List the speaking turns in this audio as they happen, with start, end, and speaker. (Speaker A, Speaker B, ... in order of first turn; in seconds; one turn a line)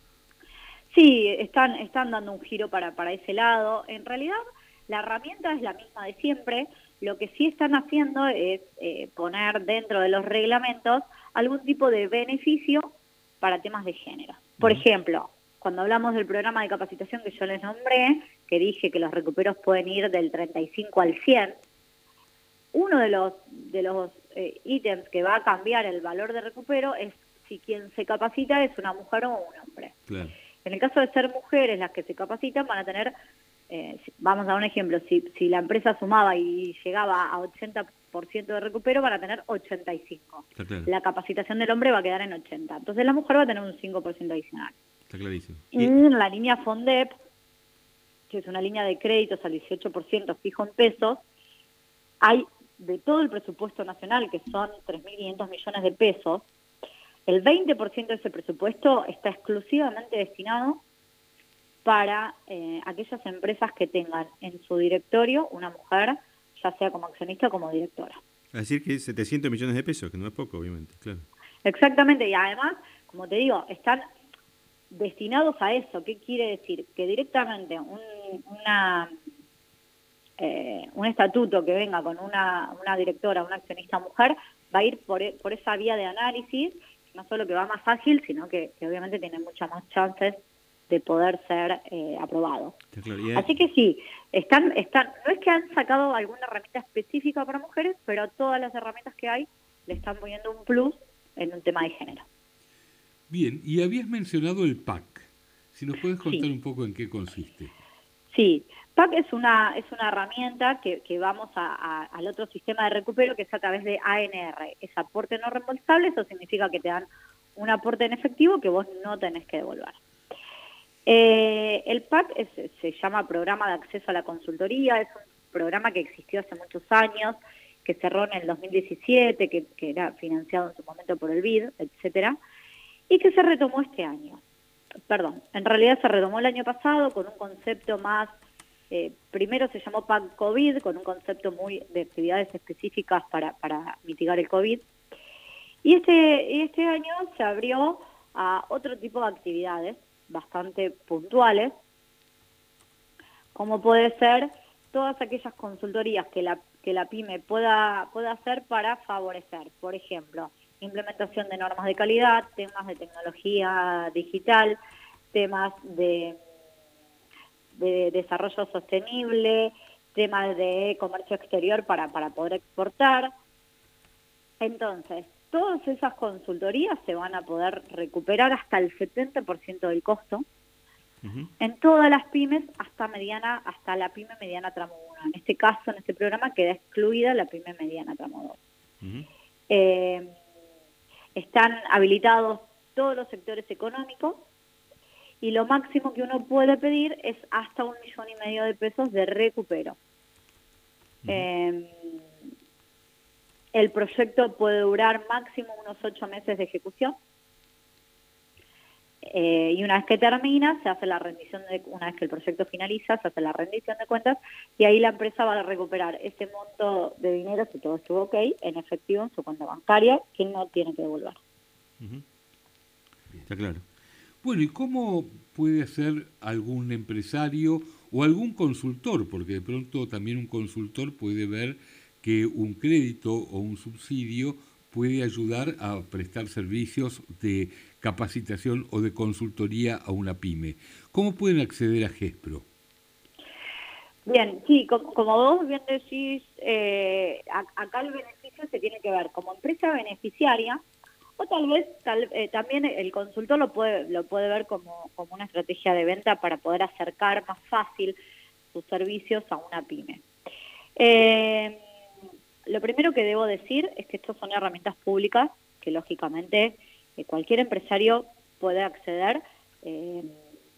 Speaker A: 0.9-12.9
Speaker A: 13.4-21.6
Speaker A: 22.7-30.0
Speaker B: 30.1-30.3
Speaker A: 30.6-33.1
Speaker A: 33.7-44.7
Speaker B: 40.5-40.9
Speaker B: 45.1-45.9
Speaker A: 45.7-47.1
Speaker A: 48.3-51.2
Speaker A: 52.2-56.5
Speaker A: 57.2-60.8
Speaker A: 61.8-68.2
Speaker B: 68.5-71.2
Speaker A: 71.6-74.0
Speaker A: 74.9-79.1
Speaker A: 80.4-92.7
Speaker B: 92.9-93.5
Speaker A: 93.3-102.2
Speaker C: 103.3-107.7
Speaker A: 108.3-120.0
Speaker A: 121.0-132.4
Speaker A: 133.1-134.4
Speaker A: 135.1-138.3
Speaker A: 138.9-144.8
Speaker A: 145.8-151.7
Speaker A: 153.5-164.8
Speaker A: 165.3-166.4
Speaker A: 167.8-173.3
Speaker A: 174.6-180.4
Speaker B: 181.2-181.5
Speaker A: 181.6-188.6
Speaker B: 189.0-189.3
Speaker A: 189.7-190.3
Speaker A: 191.3-194.5
Speaker A: 195.4-200.0
Speaker A: 201.3-202.2
Speaker A: 203.7-207.2
Speaker A: 209.2-221.4
Speaker B: 223.4-223.8
Speaker C: 224.4-242.6
Speaker A: 244.2-250.8
Speaker A: 251.4-258.2
Speaker A: 258.7-260.2
Speaker A: 260.9-261.8
Speaker A: 262.7-270.3